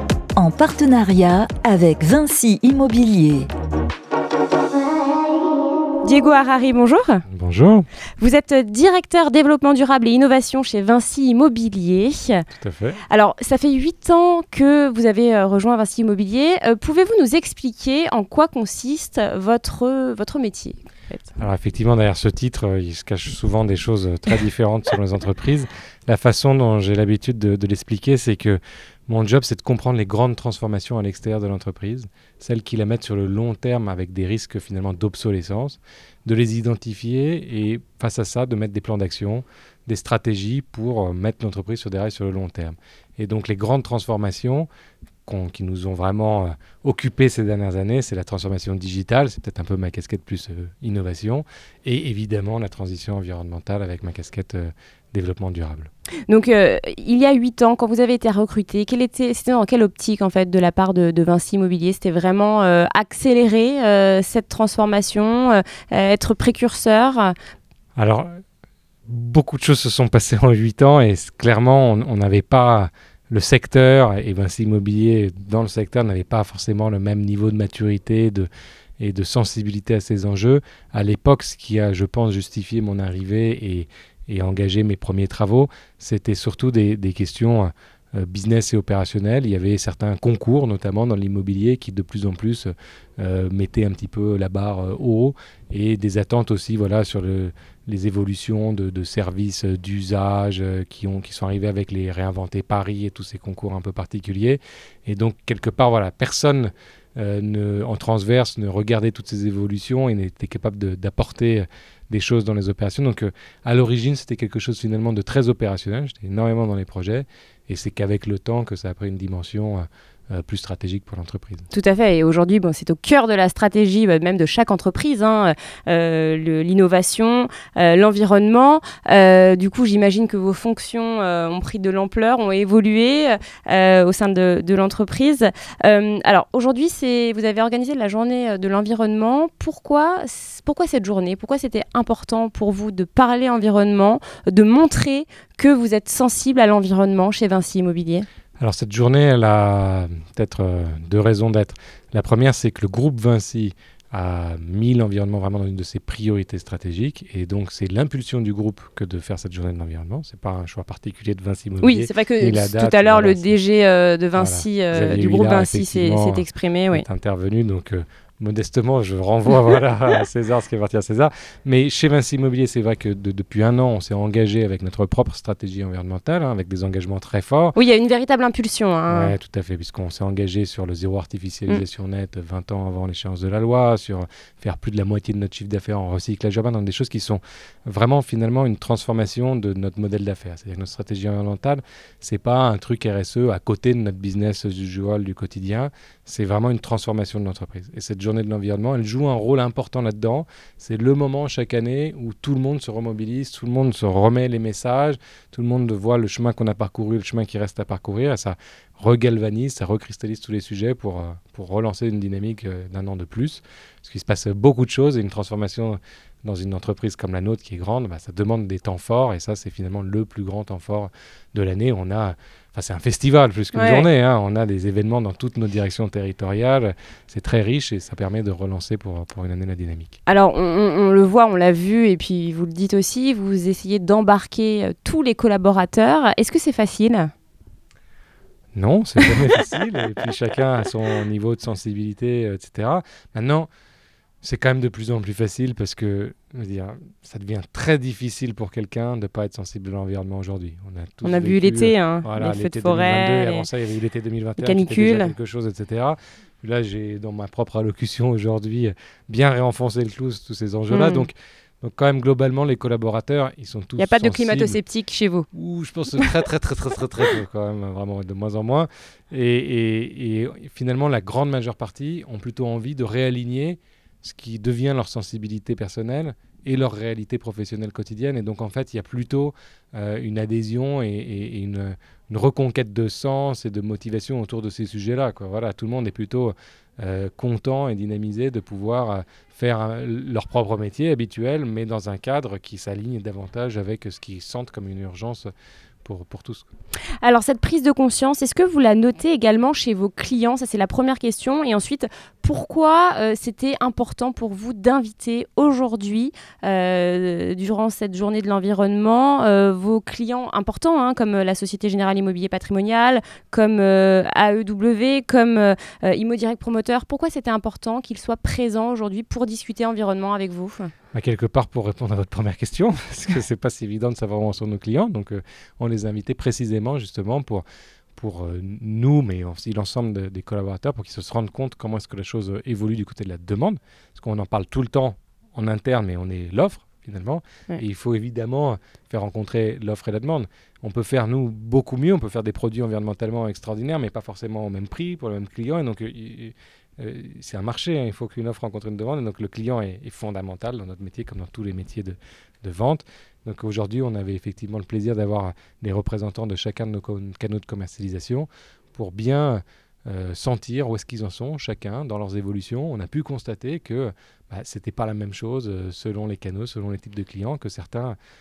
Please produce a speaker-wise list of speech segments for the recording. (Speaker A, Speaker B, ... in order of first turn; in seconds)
Speaker A: 0.3-3.5
Speaker B: 6.0-7.2, 8.2-12.4, 13.1-21.3, 56.3-67.3, 121.7-148.2, 161.8-167.0, 177.7-179.3, 223.7-224.1, 230.3-237.3, 251.2-253.7, 254.6-255.3, 260.9-261.3, 264.0-265.4, 297.2-320.9
Speaker C: 7.3-7.9, 12.6-13.0, 21.4-44.7, 45.2-55.9, 68.0-68.4, 69.1-78.5, 79.0-121.7, 148.6-163.5, 164.3-177.8, 179.1-230.2, 238.7-243.7, 244.4-264.8, 265.5-295.5, 296.0-296.6, 321.1-327.6, 328.1-368.1